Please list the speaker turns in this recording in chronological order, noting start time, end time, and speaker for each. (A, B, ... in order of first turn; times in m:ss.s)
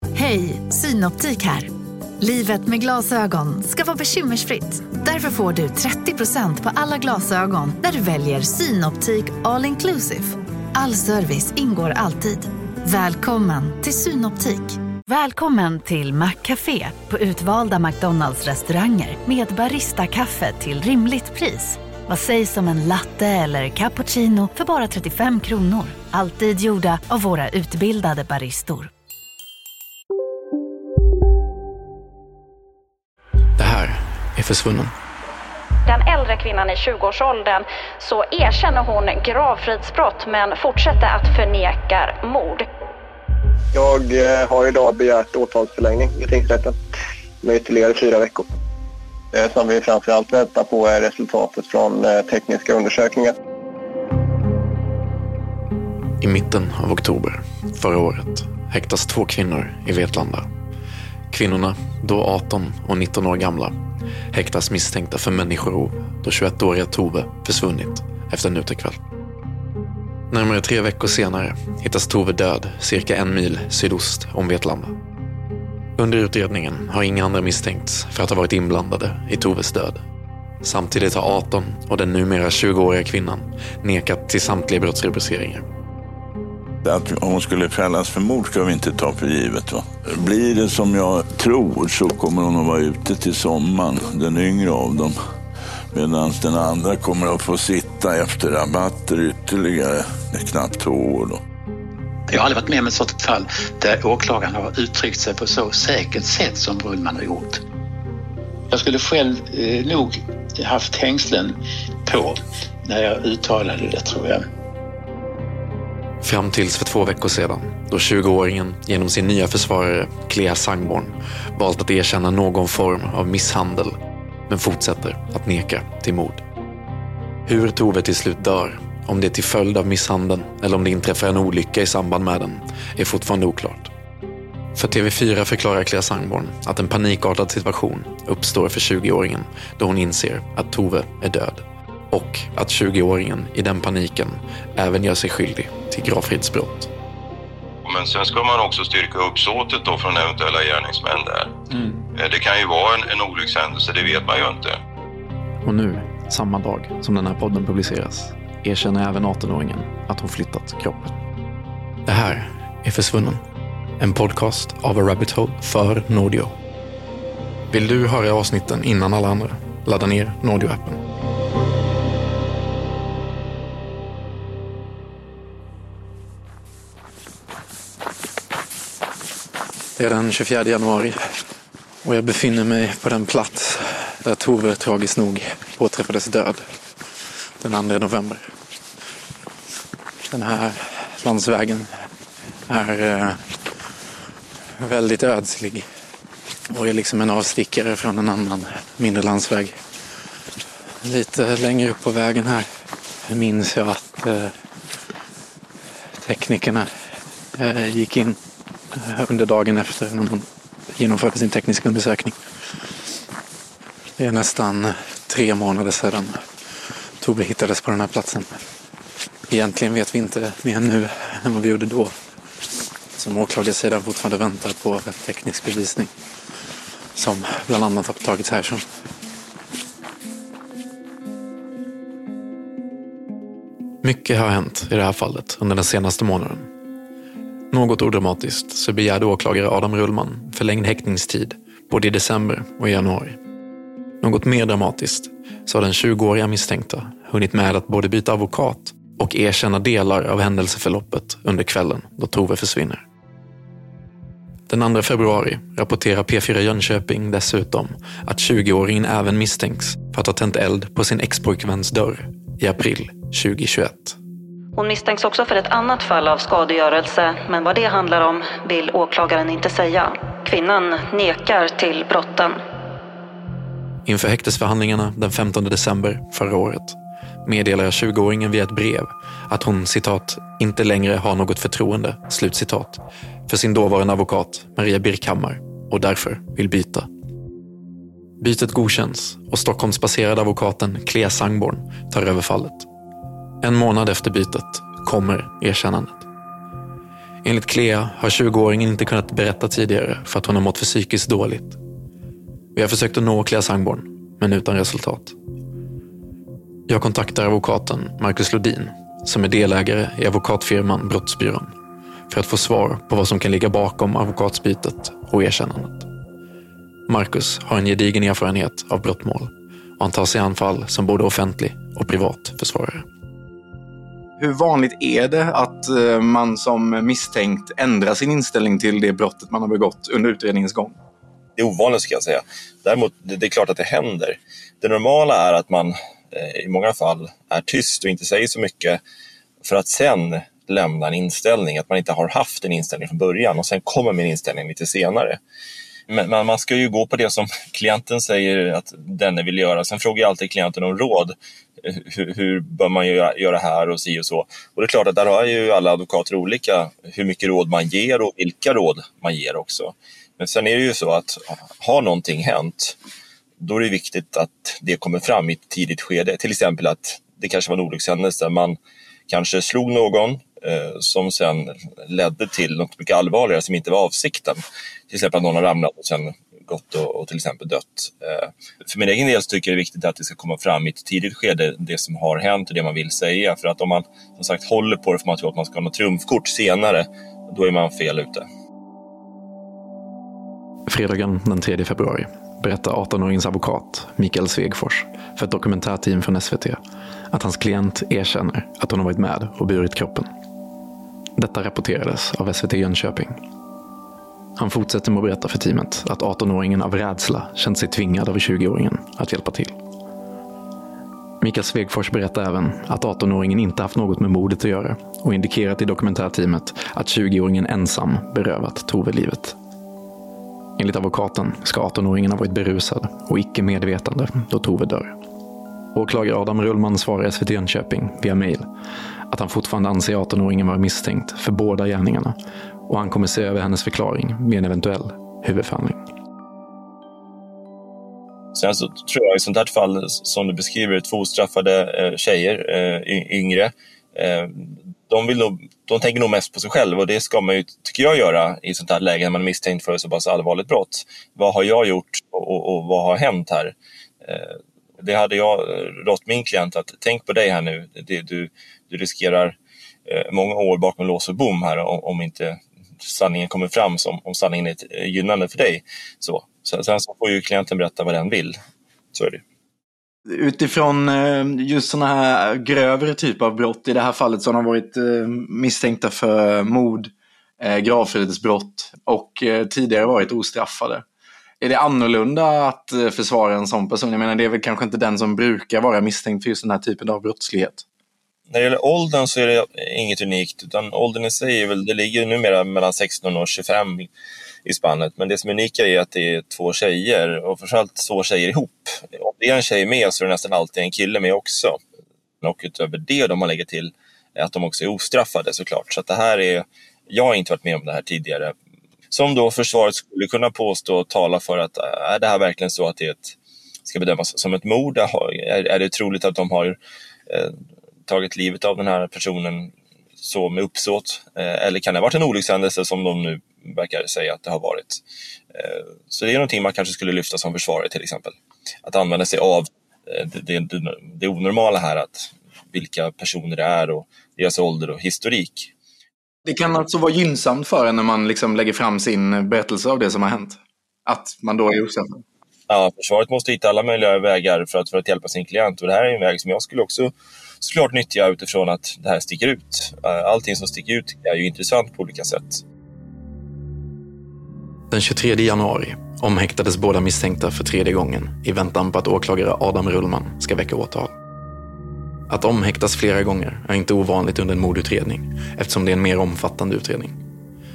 0:00.1-0:28.9 A
0:33.6-0:34.9 B
0:35.9-0:42.6 C
0:43.7-0:46.8 D
0:47.4-0:48.4 D
0:49.3-0:53.3 D
0:56.2-1:00.5 B
1:01.3-1:03.8 B
1:04.3-1:09.0 B
1:10.3-1:15.0 B
1:16.0-1:20.0 B
1:20.6-1:25.6 B
1:26.8-1:35.2 E
1:35.9-1:41.4 E
1:42.3-1:47.6 F
1:48.7-1:54.4 F
1:56.2-2:06.4 B
2:07.4-2:13.9 B
2:14.7-2:26.9 B
2:27.8-2:31.5 G
2:32.1-2:34.8 G
2:35.6-2:41.2 B
2:42.0-2:43.4 B
2:44.0-2:46.5 B
2:47.7-2:51.0 B
3:00.0-3:01.2 B
3:02.0-3:06.6 B
3:07.6-3:08.5 B
3:10.3-3:11.9 B
3:12.7-3:13.4 B
3:14.8-3:15.8 B
3:16.7-3:19.8 B
3:21.0-3:22.6 B
3:23.3-3:24.5 B
3:26.2-3:26.9 B
3:27.5-3:28.4 B
3:28.9-3:32.4 B
3:34.2-3:36.4 B
3:37.2-3:38.5 B
3:39.5-3:42.1 B
3:43.1-3:46.1 B
3:47.1-3:48.8 B
3:54.0-3:56.7 B
3:57.7-4:03.4 B
4:04.2-4:13.0 B
4:14.7-4:24.2 B
4:24.8-4:32.6 C
4:34.0-4:47.1 B
4:48.4-4:52.9 B
4:53.6-4:56.2 B
4:57.4-5:01.8 B
5:02.7-5:05.4 B
5:06.9-5:11.7 B
5:12.3-5:16.1 B
5:17.1-5:23.0 B
5:24.4-5:31.0 H
5:31.6-5:39.0 I
5:39.6-5:45.4 I
5:46.1-6:03.0 I
6:03.6-6:28.4 I
6:30.9-6:36.8 B
6:37.3-6:40.3 B
6:41.4-6:43.4 B
6:44.6-6:49.8 B
6:51.4-6:59.5 B
7:00.8-7:05.2 B
7:05.9-7:08.7 B
7:09.3-7:12.4 B
7:12.9-7:16.0 B
7:18.5-7:39.6 I
7:40.1-7:48.6 I
7:49.1-7:49.4 I
7:50.3-8:01.0 H
8:01.6-8:07.8 H
8:08.5-8:14.1 I
8:14.6-8:21.8 I
8:22.4-8:28.5 I
8:29.1-8:33.3 I
8:33.8-8:45.0 I
8:45.5-8:55.7 I
8:56.4-9:02.2 H
9:02.7-9:12.6 I
9:14.9-9:21.1 B
9:22.3-9:27.2 B